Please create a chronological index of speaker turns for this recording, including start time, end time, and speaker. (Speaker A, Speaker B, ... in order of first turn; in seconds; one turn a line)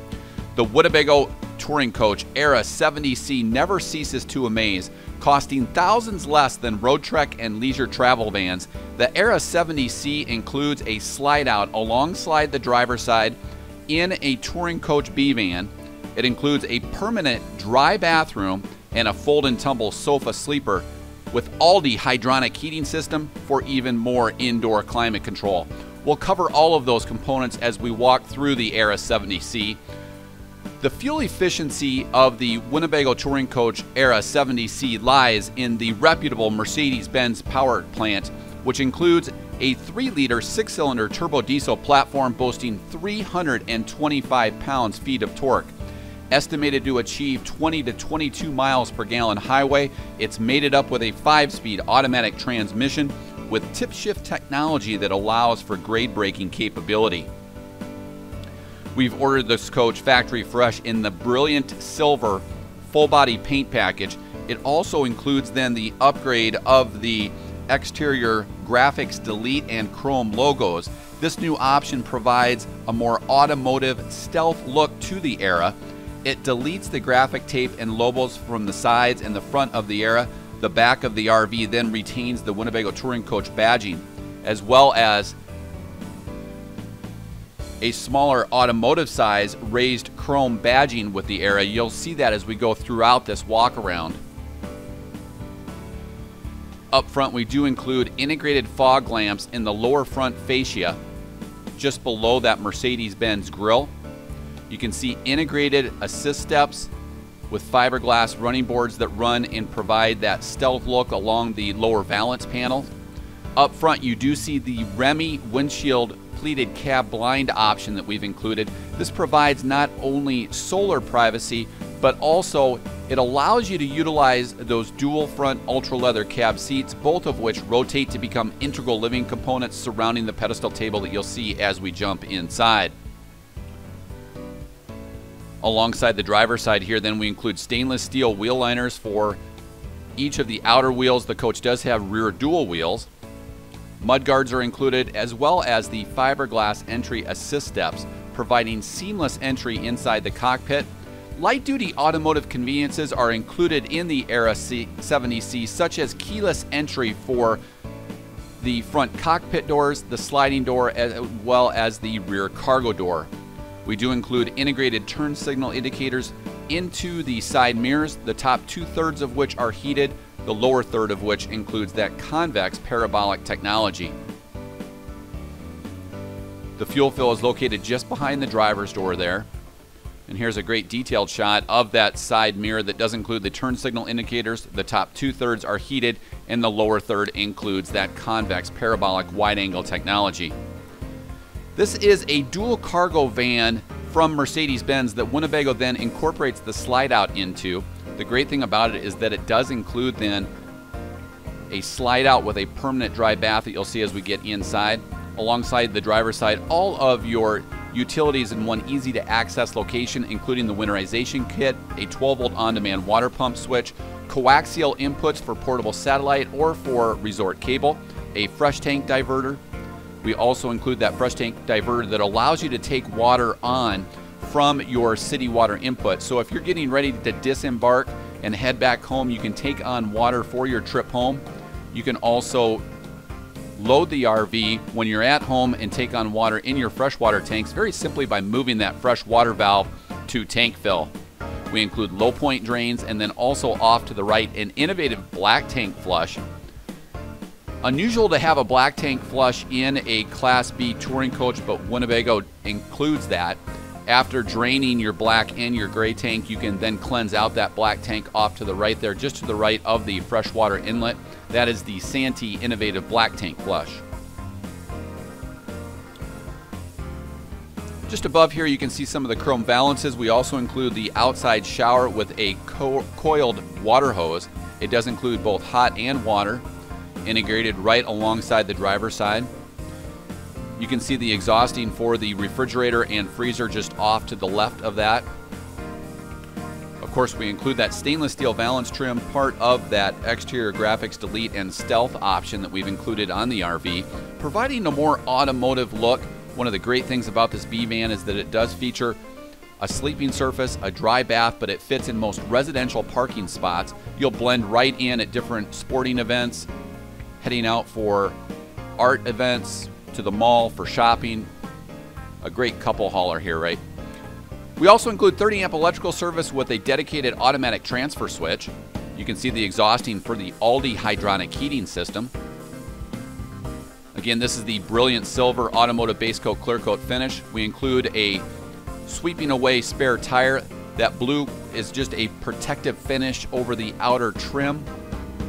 Speaker A: 0.6-13.4
Speaker A: 13.9-29.8
Speaker A: 30.8-45.7
Speaker A: 46.3-57.3
Speaker A: 58.9-85.4
Speaker A: 87.8-94.2
Speaker A: 96.9-101.0
Speaker A: 101.8-103.9
Speaker A: 104.7-106.9
Speaker A: 107.5-112.9
Speaker A: 113.6-132.9
Speaker A: 135.6-139.4
Speaker A: 140.2-143.1
Speaker A: 144.0-157.6
Speaker A: 158.6-163.3
Speaker A: 163.8-174.1
Speaker A: 176.8-179.5
Speaker A: 180.3-190.6
Speaker A: 191.8-200.5
Speaker A: 201.7-219.6
Speaker A: 220.2-231.4
Speaker A: 231.9-232.8
Speaker A: 233.8-241.1
Speaker A: 241.7-246.4
Speaker A: 247.8-264.0
Speaker A: 268.1-276.6
Speaker A: 277.2-279.5
Speaker A: 280.8-285.3
Speaker A: 287.0-299.2
Speaker A: 299.8-306.7
Speaker A: 307.4-308.4
Speaker A: 309.0-311.5
Speaker A: 312.4-313.8
Speaker A: 314.8-322.3
Speaker A: 324.1-328.4
Speaker A: 329.1-334.9